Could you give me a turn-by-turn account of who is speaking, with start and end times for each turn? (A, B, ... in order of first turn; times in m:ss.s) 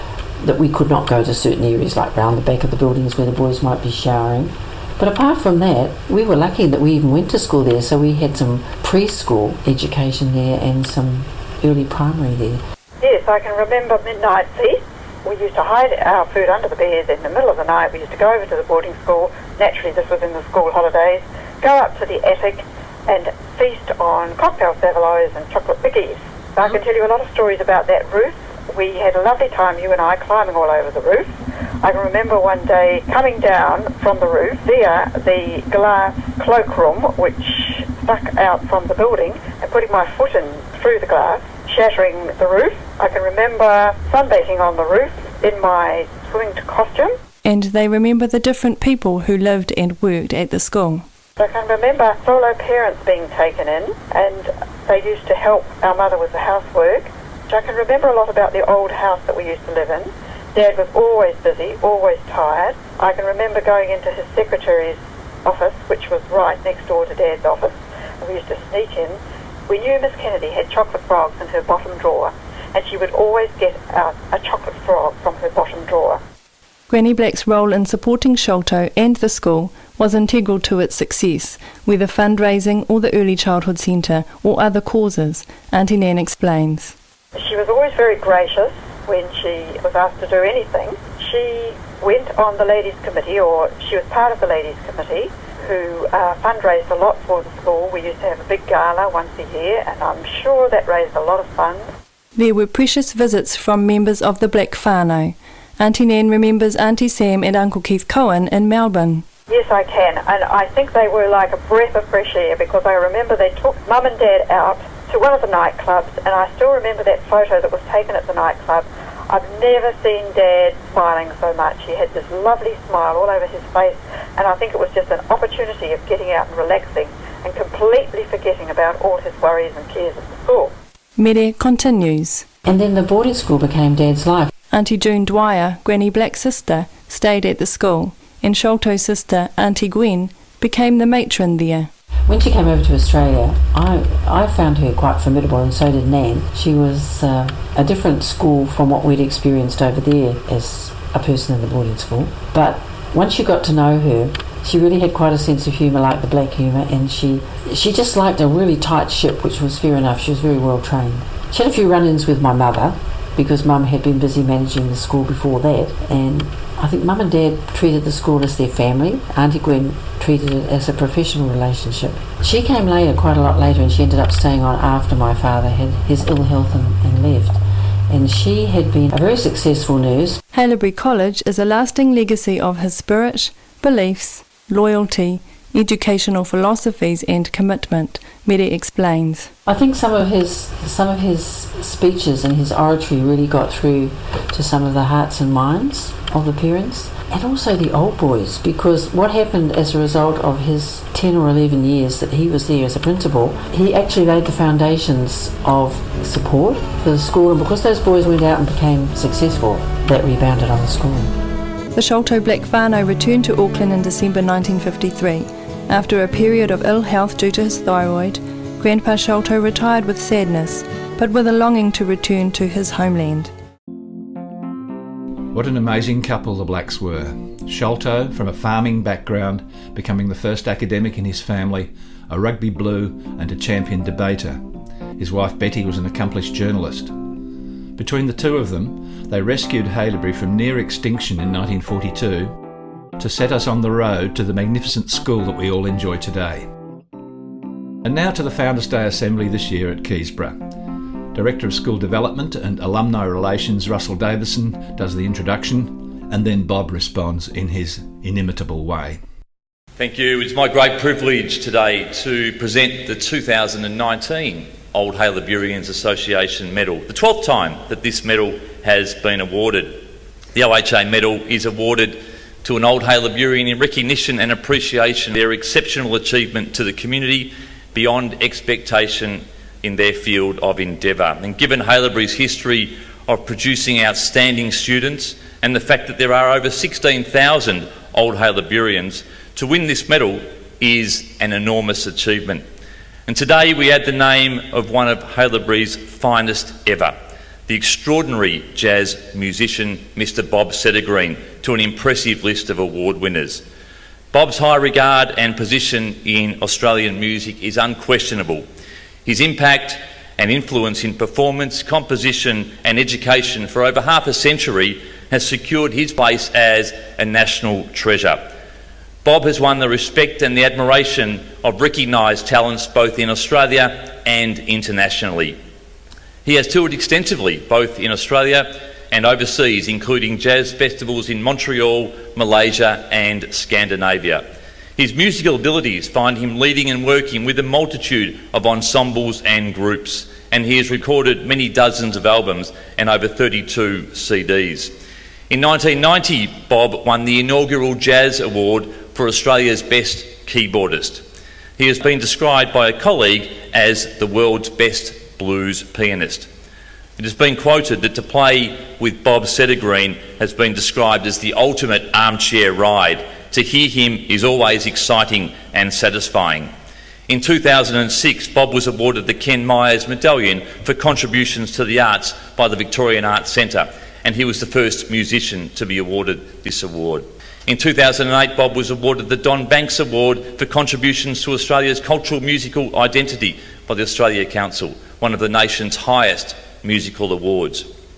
0:00.4-0:12.6 A
0:13.0-0:47.1 B
0:47.4-0:51.0 C
0:51.4-1:16.2 B
1:16.9-1:26.9 C
1:27.3-1:41.9 B
1:42.4-1:49.2 C
1:49.5-2:10.7 B
2:11.2-2:12.4 C
2:12.6-2:14.5 A
2:14.7-2:21.9 C
2:22.3-2:57.6 A
2:58.1-3:00.4 A
3:00.5-3:09.5 C
3:09.6-3:31.3 A
3:31.9-3:43.5 C
3:45.5-3:54.6 D
3:55.2-3:57.1 D
3:58.0-4:02.6 D
4:03.2-4:06.7 D
4:08.0-4:10.6 D
4:11.3-4:19.2 D
4:20.0-4:52.6 E
4:53.3-4:57.1 E
4:57.7-5:03.6 E
5:04.3-5:08.6 E
5:09.2-5:18.5 E
5:19.2-5:25.6 E
5:26.4-5:34.4 E
5:35.0-5:44.9 E
5:45.5-5:51.2 E
5:51.8-5:56.5 E
5:57.2-6:06.7 E
6:07.3-6:27.8 E